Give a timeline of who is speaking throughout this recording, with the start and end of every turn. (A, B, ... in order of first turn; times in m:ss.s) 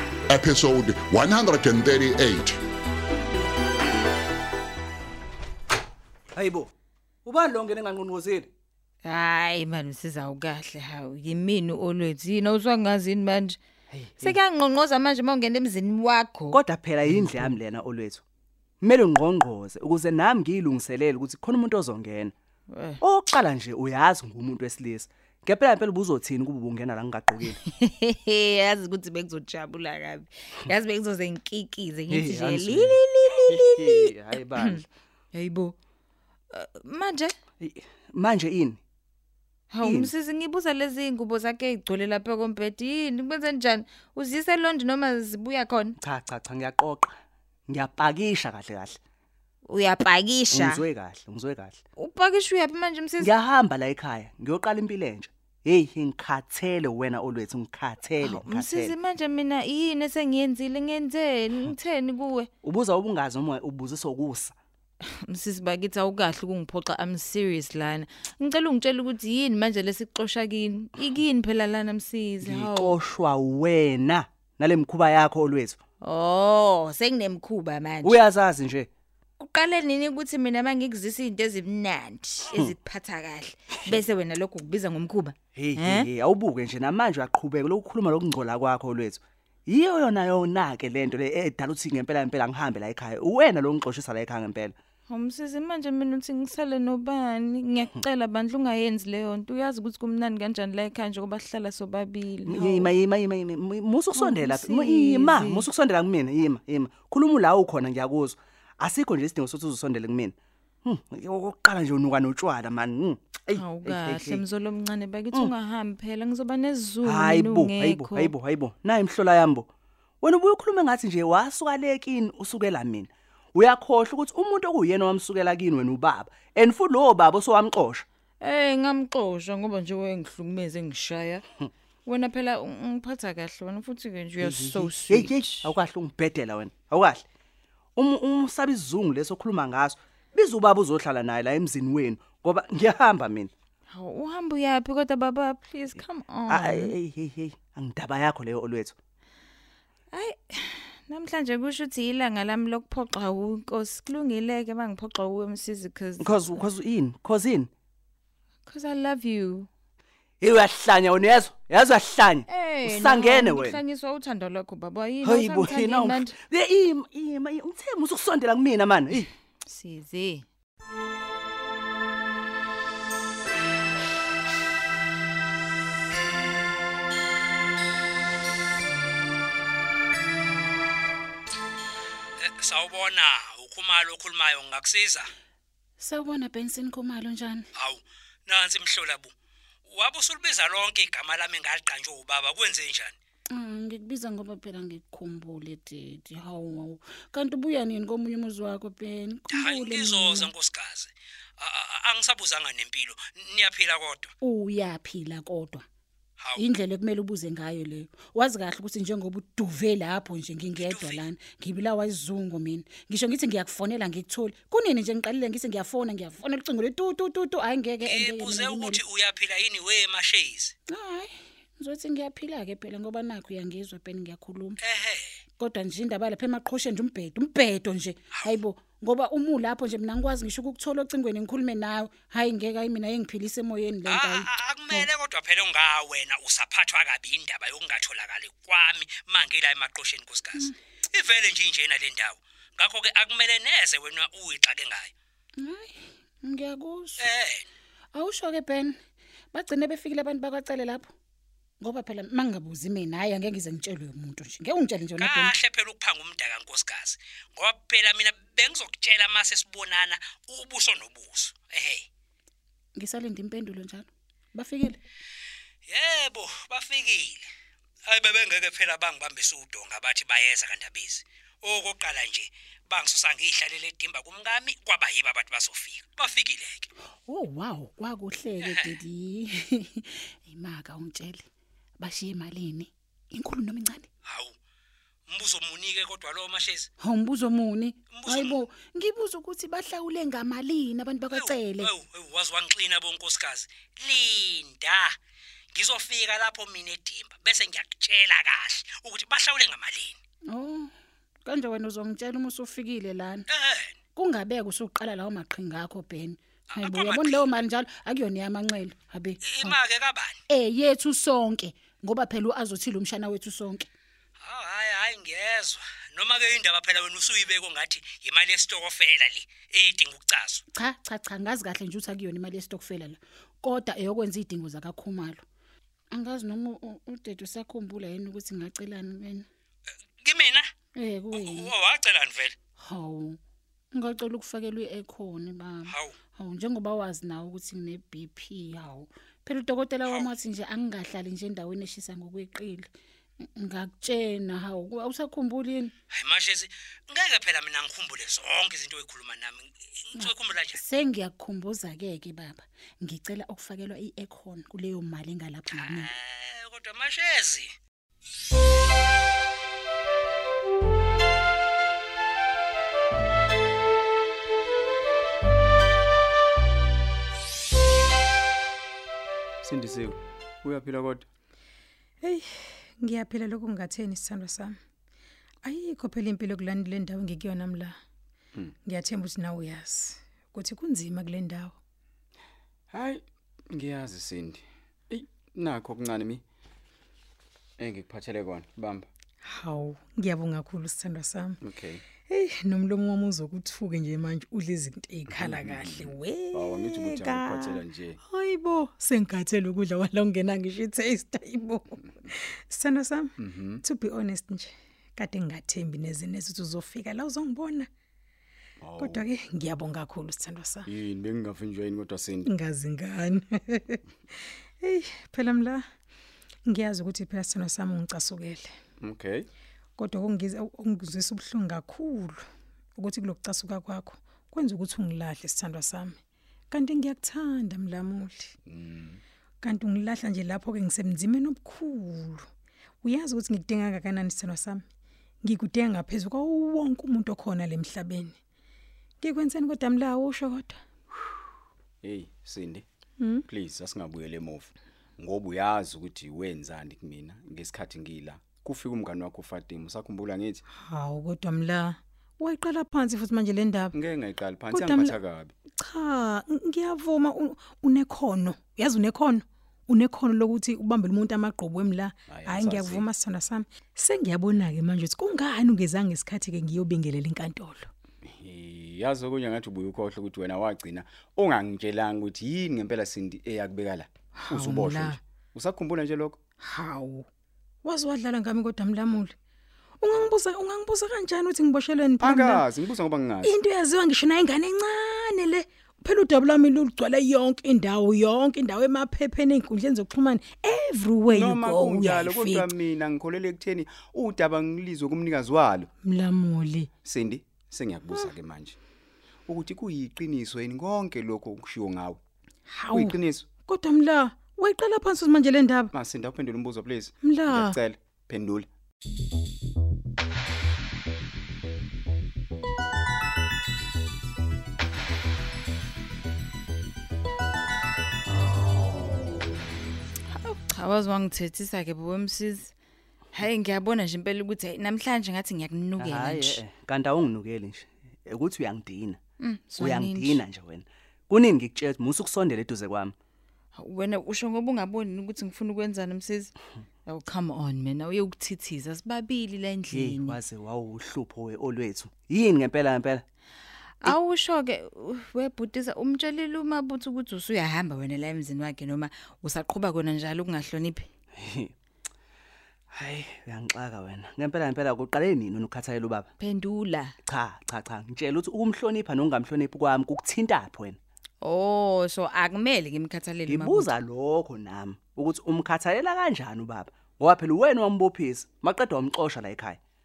0:00.3-0:02.6 A
0:06.4-0:06.7 B
0:07.2-0:08.5 B
0:09.0-0:13.6 C
0:13.9-0:14.4 B
0:14.2-0:17.5 C
0:16.5-0:18.2 B
0:18.8-0:22.3 B
0:22.7-0:23.0 C
0:23.0-0:27.6 B
0:27.6-0:35.8 C
0:32.1-0:34.8 B
0:36.5-0:37.3 C
0:37.6-0:38.8 B
0:39.7-0:46.0 C
0:39.8-0:40.1 B
0:46.0-0:47.1 B
0:47.7-0:49.0 B
0:49.7-0:50.8 C
0:50.5-0:51.8 B
0:52.0-0:53.3 C
0:53.2-0:58.9 B
0:58.2-1:02.5 C
1:02.6-1:04.6 B
1:05.0-1:12.9 C
1:12.4-1:15.8 B
1:16.0-1:18.2 C
1:18.0-1:18.9 B
1:19.4-1:26.1 C
1:25.6-1:34.7 B
1:35.1-1:42.9 C
1:42.5-1:54.4 B
1:44.1-1:45.7 C
1:53.5-1:58.3 C
1:57.0-1:59.7 B
2:00.2-2:08.0 B
2:08.4-2:11.4 C
2:12.0-2:15.7 C
2:14.4-2:17.2 B
2:18.0-2:23.5 B
2:23.9-2:27.0 C
2:26.5-2:29.0 B
2:30.1-2:36.6 C
2:36.2-2:37.7 B
2:38.7-2:39.7 C
2:40.4-2:43.8 B
2:42.5-2:46.3 C
2:45.2-2:49.3 B
2:49.6-2:50.5 C
3:02.4-3:05.3 D
3:06.0-3:07.6 E
3:07.8-3:09.3 D
3:09.9-3:13.2 D
3:13.5-3:20.5 E
3:19.5-3:24.3 D
3:24.4-3:25.8 E
3:26.6-3:39.0 E
3:30.8-3:31.2 D
3:38.0-3:40.7 D
3:40.9-3:44.8 E
3:44.8-3:45.4 D
3:45.6-3:55.1 E
3:54.0-4:05.1 D
4:05.6-4:07.2 E
4:07.2-4:07.7 D
4:08.1-4:09.0 E
4:09.5-4:11.1 E
4:11.8-4:15.5 E
4:15.2-4:22.1 D
4:23.0-4:25.0 E
4:25.9-4:27.4 D
4:28.1-4:36.9 D
4:37.3-4:41.4 E
4:38.6-4:39.0 D
4:42.0-4:44.1 E
4:44.2-4:44.6 D
4:45.3-4:46.9 D
4:47.0-4:51.9 E
4:48.1-4:48.7 D
4:51.3-4:55.2 D
4:55.7-5:00.2 D
5:00.5-5:00.9 E
5:01.4-5:03.4 E
5:03.5-5:03.9 D
5:04.2-5:09.7 E
5:06.7-5:07.5 D
5:09.4-5:10.4 D
5:10.5-5:13.9 E
5:14.4-5:20.6 D
5:20.7-5:25.4 E
5:26.1-5:29.4 E
5:30.2-5:30.7 D
5:31.0-5:31.7 E
5:31.3-5:32.6 D
5:32.8-5:33.4 E
5:33.9-5:42.9 E
5:35.9-5:36.1 D
5:43.6-5:45.9 E
5:46.1-5:50.8 D
5:50.2-5:56.1 E
5:55.7-5:57.7 D
6:09.6-6:11.2 F
6:12.2-6:14.8 G
6:15.6-6:17.9 G
6:18.9-6:21.8 G
6:22.9-6:26.4 F
6:27.8-6:29.1 F
6:29.4-6:31.6 G
6:31.6-6:32.0 F
6:32.3-6:47.9 G
6:35.3-6:38.2 F
6:43.4-6:43.8 F
6:48.8-6:49.2 F
6:49.0-6:50.9 G
6:50.9-6:52.5 F
6:52.4-6:54.0 G
6:54.8-6:55.8 G
6:56.7-6:58.7 G
6:59.0-6:59.5 F
7:00.0-7:02.4 G
7:03.0-7:06.2 G
7:06.7-7:08.6 G
7:08.7-7:09.2 F
7:09.6-7:12.4 G
7:13.0-7:14.8 G
7:15.4-7:18.4 G
7:19.2-7:20.8 G
7:22.0-7:22.8 F
7:23.2-7:23.4 G
7:23.5-7:30.6 F
7:30.7-7:34.0 G
7:33.9-7:35.5 F
7:34.7-7:35.2 G
7:35.8-7:47.9 G
7:42.3-7:43.1 F
7:48.2-7:56.4 F
7:54.4-7:55.2 G
7:56.6-7:57.3 G
7:57.8-7:59.3 G
8:00.0-8:02.6 G
8:02.2-8:03.5 F
8:03.4-8:12.7 G
8:11.3-8:15.9 F
8:16.0-8:16.9 G
8:17.0-8:18.8 F
8:19.5-8:22.2 F
8:22.7-8:25.9 G
8:22.9-8:23.5 F
8:25.9-8:28.7 F
8:27.2-8:27.8 G
8:40.3-8:42.7 C
8:43.3-8:46.6 C
8:46.0-8:49.2 B
8:49.4-8:50.4 C
8:49.8-8:53.1 B
8:53.8-8:56.5 C
8:57.1-9:00.4 C
8:59.9-9:03.2 B
9:04.0-9:11.1 C
9:11.4-9:11.7 B
9:12.9-9:16.3 B
9:16.4-9:17.1 C
9:17.3-9:21.0 B
9:21.4-9:24.0 C
9:23.5-9:29.8 B